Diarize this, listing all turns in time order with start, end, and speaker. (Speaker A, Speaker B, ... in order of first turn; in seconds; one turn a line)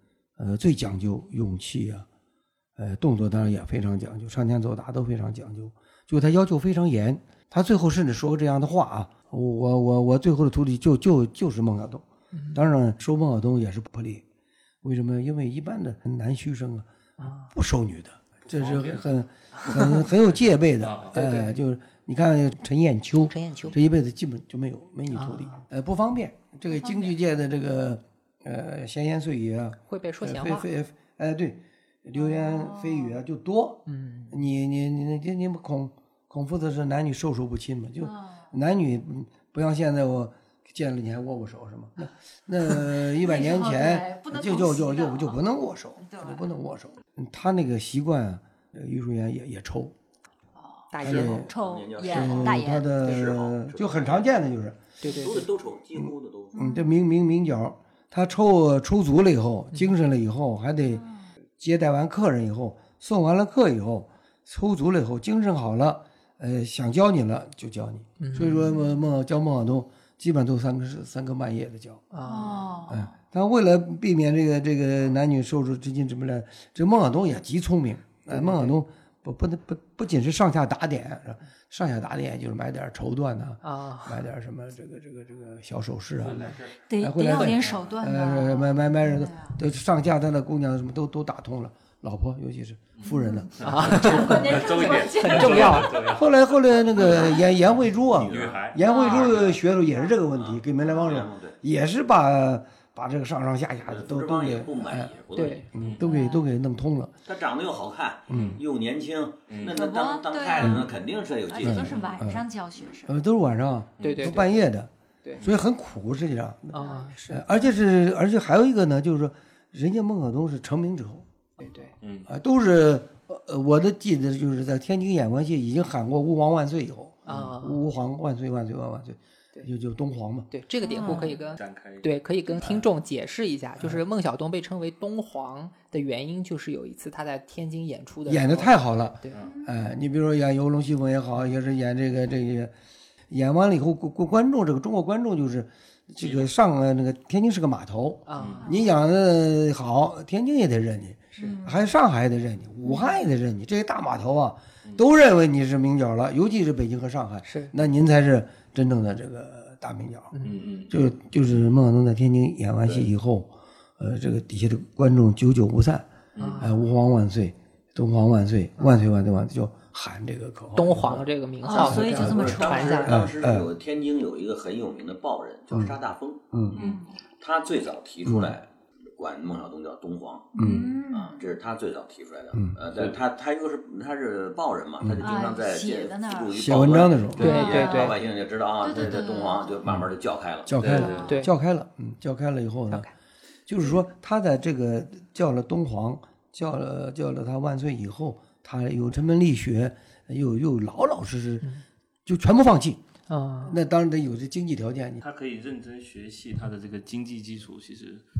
Speaker A: 0.4-2.0
Speaker A: 2.8-14.2
Speaker B: 12.3-12.6
Speaker A: 14.8-16.9
Speaker B: 17.2-17.5
Speaker A: 17.5-49.9
Speaker C: 18.5-19.0
Speaker C: 20.8-21.2
Speaker B: 21.1-21.5
Speaker B: 23.2-23.8
Speaker B: 25.1-25.6
Speaker D: 26.7-27.1
Speaker B: 29.9-30.7
Speaker D: 32.1-33.2
Speaker B: 33.9-34.4
Speaker D: 38.0-38.4
Speaker D: 43.1-45.4
Speaker D: 46.0-46.5
Speaker D: 50.5-52.9
Speaker B: 50.9-51.5
Speaker A: 51.0-55.0
Speaker E: 51.1-54.3
Speaker B: 55.0-55.5
Speaker E: 55.0-56.5
Speaker A: 56.0-61.1
Speaker D: 56.5-56.9
Speaker D: 60.9-61.2
Speaker A: 61.6-72.0
Speaker B: 68.2-68.7
Speaker B: 72.1-72.7
Speaker D: 72.2-73.1
Speaker A: 72.9-94.6
Speaker B: 78.3-78.8
Speaker B: 83.6-84.2
Speaker C: 86.2-86.8
Speaker D: 86.9-89.5
Speaker C: 87.3-88.0
Speaker C: 93.0-96.4
Speaker B: 93.6-95.9
Speaker D: 94.0-96.2
Speaker A: 96.1-107.2
Speaker C: 96.9-97.4
Speaker E: 96.9-97.4
Speaker D: 97.1-97.4
Speaker E: 98.1-99.6
Speaker C: 98.1-99.6
Speaker D: 98.8-99.3
Speaker D: 99.8-100.2
Speaker E: 100.3-101.6
Speaker D: 100.8-101.1
Speaker E: 103.8-105.6
Speaker B: 105.3-105.7
Speaker D: 106.0-106.4
Speaker E: 107.2-112.2
Speaker A: 108.3-108.6
Speaker B: 108.3-108.6
Speaker C: 109.5-109.7
Speaker D: 109.6-110.8
Speaker A: 110.6-110.9
Speaker D: 111.4-113.1
Speaker A: 111.6-112.5
Speaker A: 113.0-121.2
Speaker C: 114.0-114.3
Speaker B: 114.0-114.5
Speaker B: 116.7-117.4
Speaker B: 121.6-121.9
Speaker C: 122.0-122.3
Speaker A: 122.2-130.5
Speaker B: 127.2-127.8
Speaker C: 127.3-127.5
Speaker B: 130.5-139.3
Speaker D: 130.8-131.4
Speaker C: 130.9-132.2
Speaker A: 138.3-142.7
Speaker D: 139.4-139.7
Speaker A: 143.3-160.3
Speaker C: 146.2-146.5
Speaker B: 148.3-148.7
Speaker C: 148.3-148.7
Speaker D: 151.4-151.8
Speaker B: 157.4-157.7
Speaker B: 160.3-160.6
Speaker C: 160.4-160.9
Speaker A: 160.9-166.1
Speaker C: 166.3-166.7
Speaker B: 166.4-166.8
Speaker A: 166.6-171.3
Speaker B: 170.7-173.2
Speaker D: 171.6-173.2
Speaker A: 171.8-173.7
Speaker E: 172.1-191.0
Speaker A: 176.5-176.8
Speaker D: 176.8-177.2
Speaker A: 178.2-178.6
Speaker D: 180.5-181.4
Speaker A: 180.6-181.0
Speaker A: 185.0-185.3
Speaker D: 185.2-186.9
Speaker A: 186.5-187.8
Speaker C: 187.4-187.7
Speaker B: 187.4-188.2
Speaker D: 187.4-188.2
Speaker D: 188.8-189.8
Speaker A: 190.7-193.1
Speaker C: 190.8-191.4
Speaker D: 190.9-191.4
Speaker B: 191.2-191.5
Speaker B: 192.9-193.1
Speaker A: 193.7-201.7
Speaker A: 202.2-203.0
Speaker B: 203.3-203.8
Speaker A: 203.6-205.2
Speaker C: 205.2-208.2